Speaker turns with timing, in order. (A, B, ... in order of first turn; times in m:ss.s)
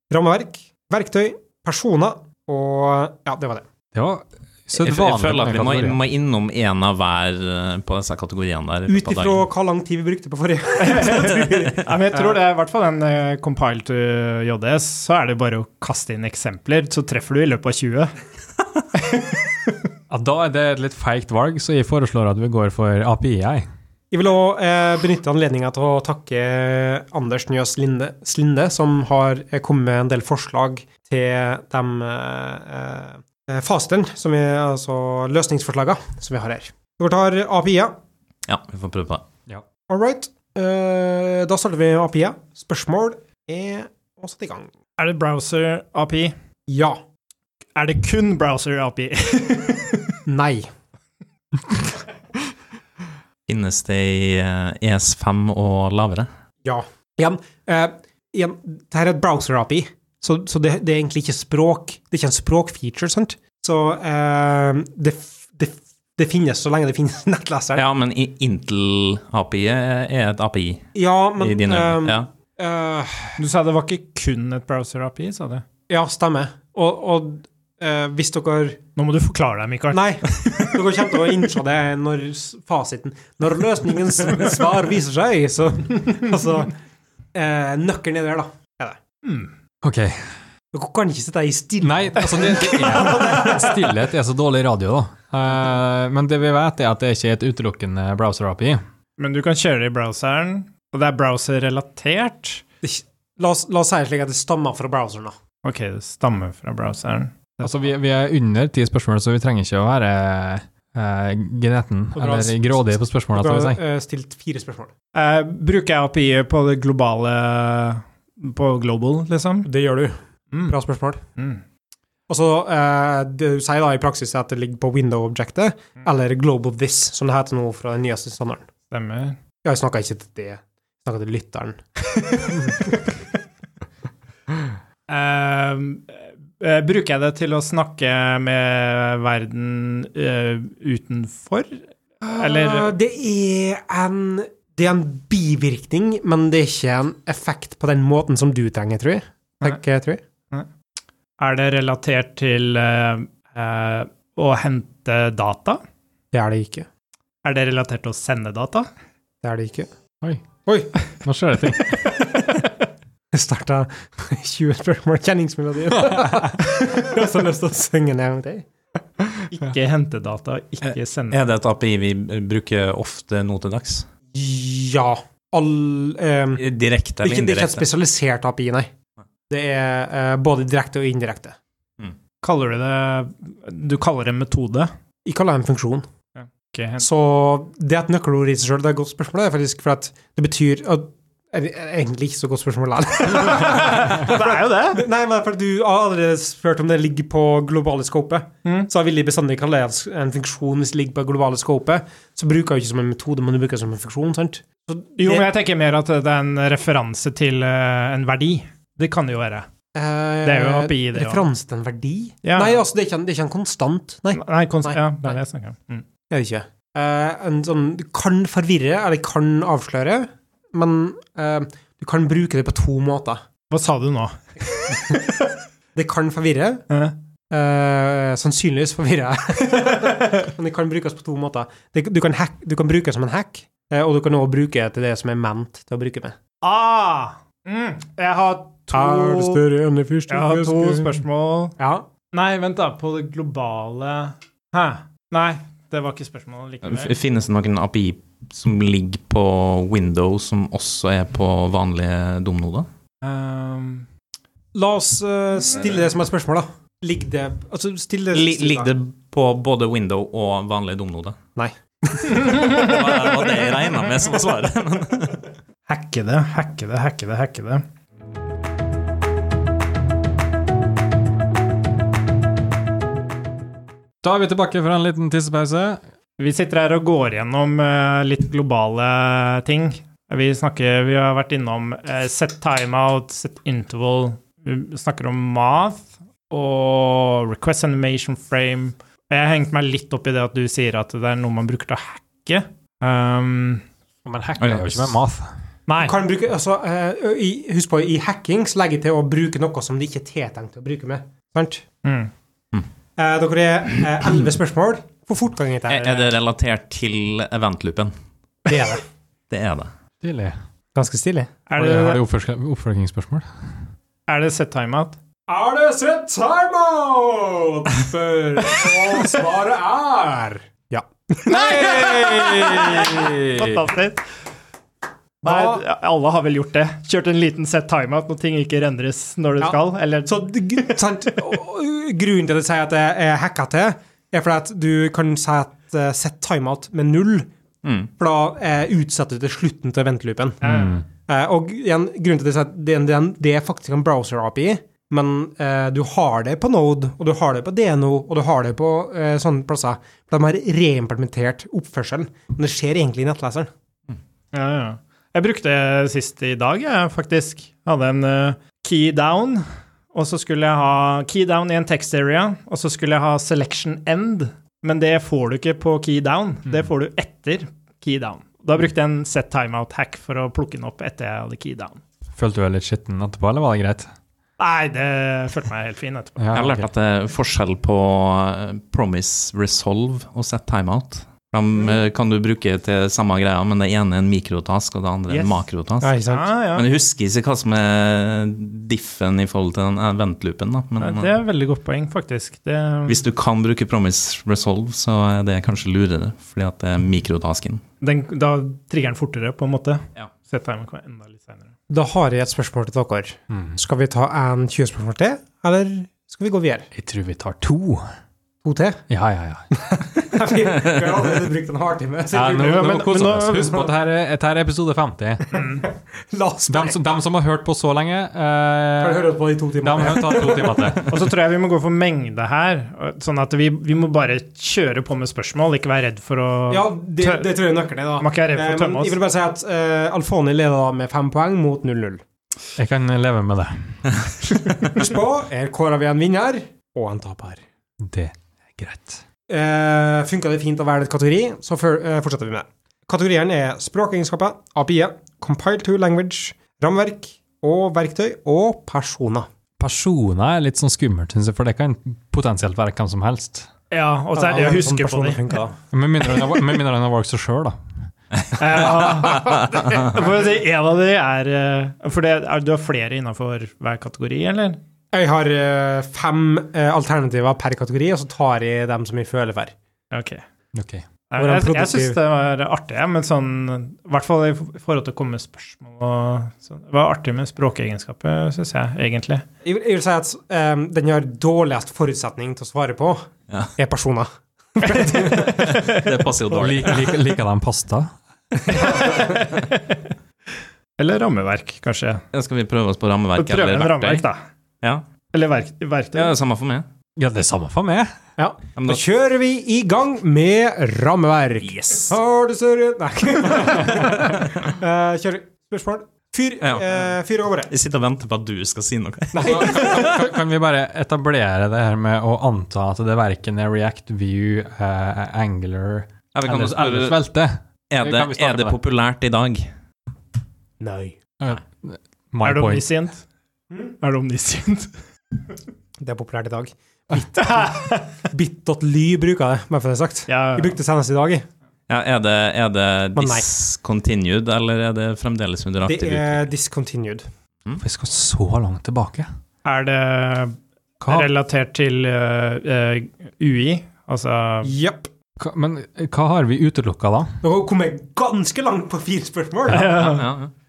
0:00.1-0:03.6 A
0:03.9-0:06.0 B
0:04.7-0:09.5 C
0:08.9-0:12.4 A
0:10.8-0:18.1 D
0:20.1-0:23.7 B
0:24.1-0:38.0 A
0:38.5-0:39.2 C
0:39.9-0:44.7 A
0:45.0-0:46.3 D
0:46.7-0:47.0 A
0:47.8-0:50.2 D
0:50.3-0:50.7 A
0:53.5-0:56.3 C
0:56.6-1:07.8 A
1:07.8-1:12.3 C
1:11.0-1:13.4 A
1:13.4-1:15.6 D
1:15.9-1:18.8 A
1:19.0-1:20.1 D
1:19.9-1:26.8 A
1:27.3-1:29.0 A
1:29.2-1:29.5 D
1:29.8-1:30.4 B
1:30.7-1:33.9 A
1:31.8-1:38.8 B
1:39.2-1:42.6 D
1:42.8-1:45.4 A
1:45.6-1:47.7 D
1:47.6-1:53.8 B
1:52.2-1:54.9 A
1:55.1-1:59.7 D
1:59.6-2:00.2 A
2:00.7-2:01.2 A
2:01.4-2:01.6 D
2:02.3-2:08.7 A
2:08.9-2:09.4 D
2:09.6-2:13.1 A
2:15.1-2:22.9 D
2:22.2-2:30.2 A
2:31.4-2:35.8 D
2:36.3-2:36.9 A
2:37.4-2:38.9 D
2:39.4-2:39.9 A
2:40.7-2:41.0 A
2:41.2-2:42.0 B
2:43.3-2:48.7 A
2:46.0-2:46.5 B
2:49.5-2:51.4 D
2:51.3-2:54.1 C
2:54.3-2:56.6 A
2:56.6-2:57.9 C
2:57.2-2:58.9 A
2:59.5-3:01.6 A
3:02.4-3:04.9 D
3:05.2-3:06.1 A
3:06.4-3:07.1 D
3:07.0-3:25.5 A
3:13.3-3:15.0 D
3:25.2-3:29.7 D
3:29.9-3:35.4 A
3:30.4-3:31.5 D
3:32.4-3:32.8 D
3:34.3-3:36.0 D
3:36.3-3:43.4 A
3:43.7-3:45.3 D
3:46.0-3:46.8 A
3:46.9-3:47.2 D
3:47.5-3:56.4 A
3:56.6-3:59.6 D
3:58.9-4:01.2 A
4:00.3-4:01.8 D
4:01.8-4:02.1 A
4:02.3-4:07.1 D
4:06.8-4:12.9 C
4:13.2-4:14.1 D
4:14.7-4:18.9 A
4:18.3-4:21.4 C
4:21.6-4:22.6 A
4:22.3-4:23.0 D
4:22.5-4:25.4 C
4:25.9-4:27.8 D
4:34.2-4:36.0 B
4:36.4-4:53.8 D
4:54.2-4:55.5 B
4:54.6-4:55.2 C
4:55.9-4:56.2 D
4:56.0-5:01.8 A
5:02.0-5:02.3 D
5:03.2-5:06.3 A
5:05.9-5:08.1 C
5:08.7-5:09.0 A
5:09.5-5:09.9 C
5:10.2-5:10.6 B
5:11.0-5:11.6 A
5:11.7-5:12.2 D
5:11.8-5:13.5 B
5:14.3-5:15.2 D
5:15.5-5:23.2 A
5:21.4-5:24.2 D
5:22.6-5:23.8 B
5:25.4-5:25.8 A
5:25.4-5:31.0 D
5:29.6-5:37.5 A
5:37.8-5:38.1 C
5:38.2-5:53.7 A
5:40.6-5:41.0 D
5:40.6-5:41.0 B
5:54.5-6:12.0 D
6:12.4-6:14.1 B
6:14.6-6:16.6 D
6:16.4-6:16.9 B
6:16.5-6:26.2 C
6:25.3-6:25.6 D
6:26.0-6:26.5 A
6:26.3-6:26.9 D
6:26.7-6:31.4 C
6:31.0-6:33.2 D
6:33.1-6:37.8 C
6:38.0-6:41.7 D
6:41.9-6:46.9 A
6:43.5-6:43.8 B
6:46.9-6:48.0 B
6:48.6-6:49.0 A
6:49.1-6:49.8 B
6:49.8-6:53.9 A
6:52.3-6:55.7 B
6:52.6-6:53.8 D
6:55.5-6:55.8 D
6:56.3-6:57.0 A
6:56.7-7:01.1 B
6:59.0-7:01.0 A
7:01.1-7:07.6 D
7:06.7-7:12.2 A
7:08.2-7:09.2 D
7:12.8-7:14.0 B
7:14.7-7:17.6 A
7:18.0-7:19.2 B
7:19.5-7:29.5 A
7:29.8-7:33.7 B
7:33.9-7:35.4 D
7:34.3-7:35.8 A
7:35.9-7:37.8 B
7:38.6-7:44.8 D
7:39.1-7:40.0 C
7:45.1-7:49.7 A
7:50.1-7:50.4 D
7:50.7-7:51.0 B
7:51.3-7:59.4 D
7:51.4-7:52.2 A
7:59.6-8:05.8 A
8:03.5-8:03.8 C
8:04.9-8:06.1 D
8:05.2-8:07.2 C
8:06.5-8:08.1 B
8:08.7-8:10.0 D
8:08.7-8:09.2 A
8:11.0-8:12.2 D
8:12.3-8:14.3 C
8:13.4-8:14.4 D
8:15.3-8:16.3 D
8:16.1-8:16.9 C
8:17.2-8:18.1 B
8:18.4-8:27.7 A
8:18.8-8:19.1 C
8:21.6-8:22.2 C
8:26.6-8:27.0 C
8:27.7-8:30.2 C
8:29.3-8:30.2 A
8:29.4-8:38.8 B
8:36.3-8:37.2 C
8:37.9-8:39.7 C
8:40.8-8:41.2 A
8:41.4-8:42.9 B
8:42.4-8:43.2 D
8:44.0-8:44.9 D
8:46.0-8:51.4 A
8:47.4-8:48.1 D
8:50.3-8:50.8 D
8:51.9-8:56.5 C
8:53.2-8:53.5 A
8:55.9-8:57.3 A
8:57.8-8:59.3 B
8:59.6-9:00.6 D
9:01.0-9:01.3 B
9:01.1-9:04.7 D
9:04.6-9:05.1 A
9:05.4-9:07.4 B
9:07.4-9:10.0 A
9:09.7-9:10.3 D
9:09.9-9:10.5 C